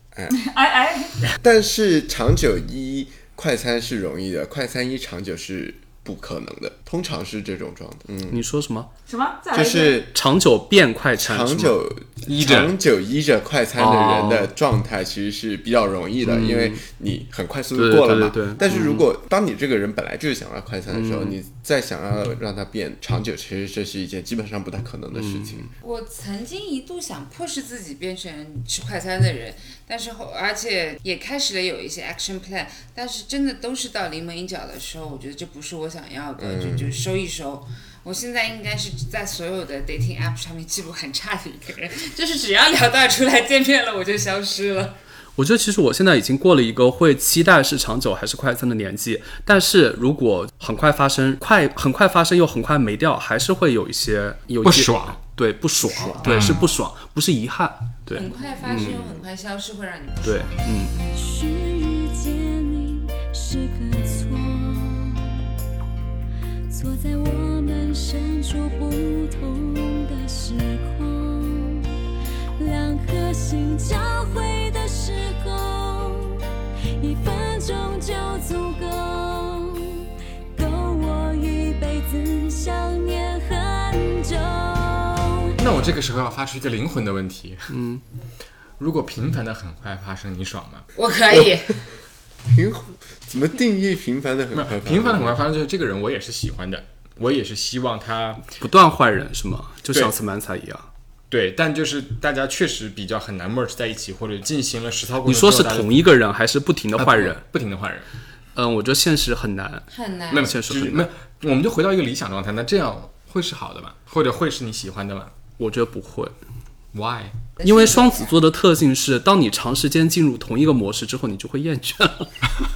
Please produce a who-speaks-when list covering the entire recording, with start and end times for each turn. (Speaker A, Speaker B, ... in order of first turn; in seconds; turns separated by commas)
Speaker A: 0.3-1.4, Speaker B: 1.4-8.4, Speaker C: 8.3-8.9, Speaker A: 9.1-10.1, Speaker B: 9.5-10.1, Speaker C: 10.1-11.7, Speaker B: 11.2-25.7, Speaker D: 12.3-12.8, Speaker C: 13.8-14.5, Speaker C: 16.2-16.8, Speaker C: 17.8-19.1, Speaker C: 20.9-21.4, Speaker C: 25.1-25.7, Speaker E: 25.8-45.0, Speaker B: 36.4-36.9, Speaker C: 45.4-59.2, Speaker D: 54.6-55.2, Speaker E: 56.2-56.8, Speaker D: 56.2-56.6, Speaker E: 58.1-60.5, Speaker C: 60.2-61.0, Speaker F: 61.0-65.3, Speaker F: 66.7-71.9, Speaker F: 72.6-76.4, Speaker F: 77.0-85.5, Speaker D: 85.6-87.7, Speaker C: 87.7-88.0, Speaker D: 88.8-90.9, Speaker E: 91.0-91.8, Speaker B: 92.5-95.4, Speaker D: 94.5-98.5, Speaker C: 98.6-100.9, Speaker D: 101.3-105.9, Speaker C: 105.2-107.4, Speaker D: 107.0-108.1, Speaker C: 108.6-111.1, Speaker E: 109.9-110.5, Speaker D: 110.3-115.3, Speaker C: 115.6-116.3, Speaker D: 116.9-117.4, Speaker E: 117.6-118.4, Speaker C: 117.6-122.3